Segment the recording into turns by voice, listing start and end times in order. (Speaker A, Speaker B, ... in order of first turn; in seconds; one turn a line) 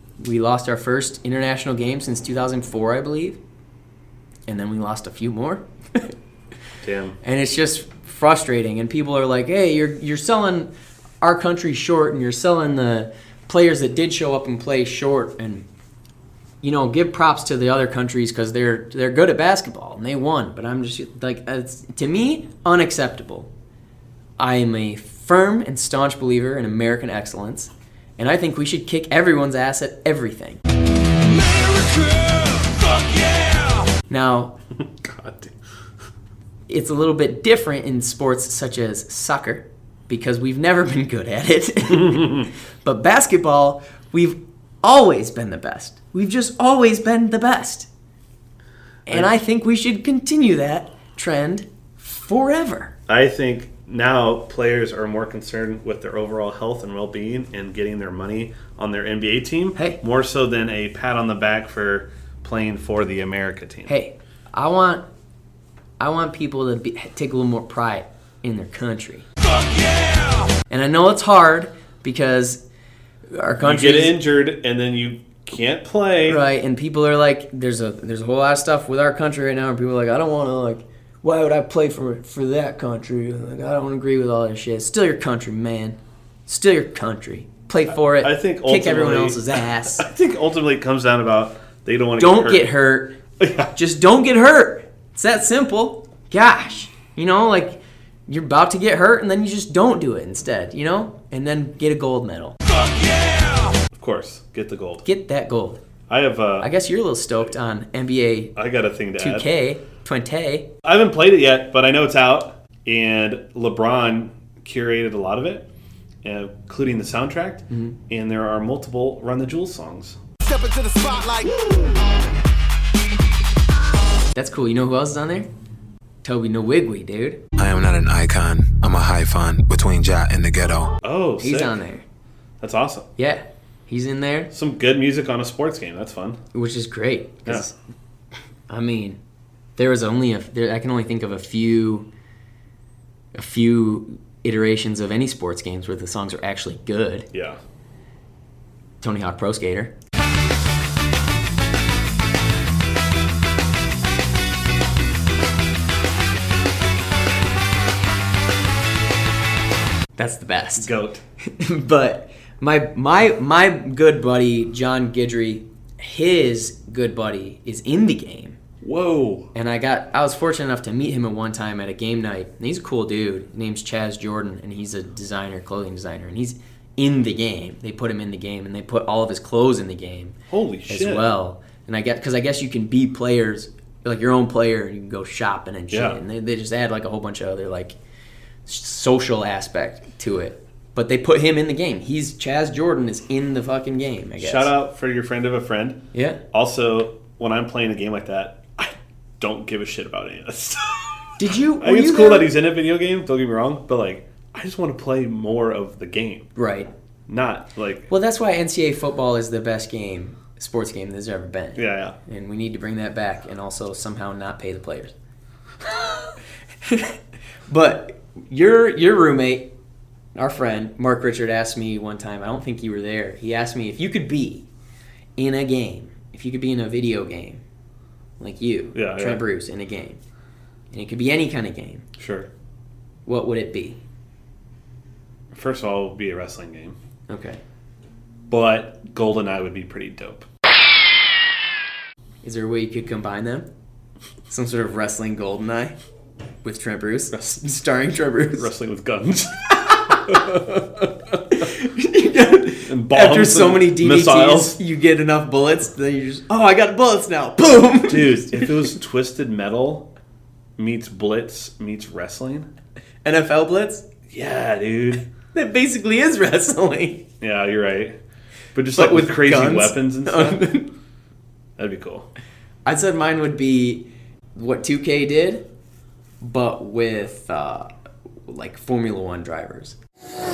Speaker A: 0.2-3.4
Speaker A: 4.5-6.1
Speaker B: 6.8-7.2
Speaker A: 7.2-10.7
Speaker A: 11.2-15.7
Speaker A: 16.6-23.5
Speaker A: 24.4-30.6
Speaker A: 34.1-34.5
Speaker B: 34.7-35.5
Speaker A: 36.7-47.9
Speaker B: 41.9-42.5
Speaker A: 49.0-52.9
Speaker B: 53.1-63.9
Speaker A: 63.9-65.0
Speaker A: 66.0-69.3
Speaker A: 70.7-72.6
Speaker A: 73.3-74.2
Speaker B: 73.6-76.4
Speaker A: 76.2-90.0
Speaker B: 87.9-92.7
Speaker A: 92.2-93.1
Speaker B: 93.4-93.7
Speaker A: 93.7-102.6
Speaker B: 102.8-105.0
Speaker A: 105.0-105.8
Speaker B: 106.1-106.7
Speaker A: 106.6-108.5
Speaker B: 108.5-109.5
Speaker A: 109.2-110.7
Speaker B: 110.8-115.7
Speaker B: 116.2-120.2
Speaker A: 117.7-118.0
Speaker A: 124.3-125.5
Speaker A: 126.2-127.4
Speaker C: 127.6-130.9
Speaker B: 131.0-131.8
Speaker A: 131.4-132.0
Speaker B: 132.6-133.1
Speaker A: 133.2-134.5
Speaker B: 134.5-136.4
Speaker A: 136.5-137.7
Speaker A: 138.7-139.2
Speaker A: 139.8-142.1
Speaker A: 143.3-147.3
Speaker B: 147.3-147.6
Speaker A: 149.0-149.9
Speaker A: 160.2-160.9
Speaker B: 160.8-161.2
Speaker A: 161.4-168.6
Speaker B: 168.8-169.5
Speaker A: 169.5-180.3
Speaker B: 180.5-181.3
Speaker A: 180.9-187.9
Speaker B: 185.9-186.2
Speaker A: 188.7-194.7
Speaker B: 194.4-206.5
Speaker A: 196.1-196.4
Speaker A: 201.4-202.5
Speaker A: 206.6-206.9
Speaker B: 207.3-208.1
Speaker A: 208.1-215.1
Speaker B: 211.8-212.2
Speaker A: 216.8-217.2
Speaker A: 217.7-219.7
Speaker A: 220.3-224.7
Speaker A: 225.4-227.6
Speaker A: 228.4-230.2
Speaker B: 228.9-229.4
Speaker A: 230.9-232.1
Speaker B: 232.2-232.5
Speaker A: 233.2-234.0
Speaker B: 235.5-237.0
Speaker A: 237.3-237.6
Speaker B: 238.5-240.5
Speaker A: 242.4-243.7
Speaker A: 244.5-245.9
Speaker A: 246.6-248.7
Speaker B: 248.5-251.4
Speaker A: 251.5-258.9
Speaker B: 252.8-254.8
Speaker B: 258.1-260.1
Speaker B: 260.8-262.7
Speaker A: 263.2-264.1
Speaker B: 264.3-265.3
Speaker A: 265.5-267.2
Speaker B: 267.4-268.2
Speaker B: 268.7-270.7
Speaker A: 268.9-270.9
Speaker B: 271.8-272.3
Speaker A: 272.8-275.6
Speaker A: 276.4-277.9
Speaker A: 278.5-280.0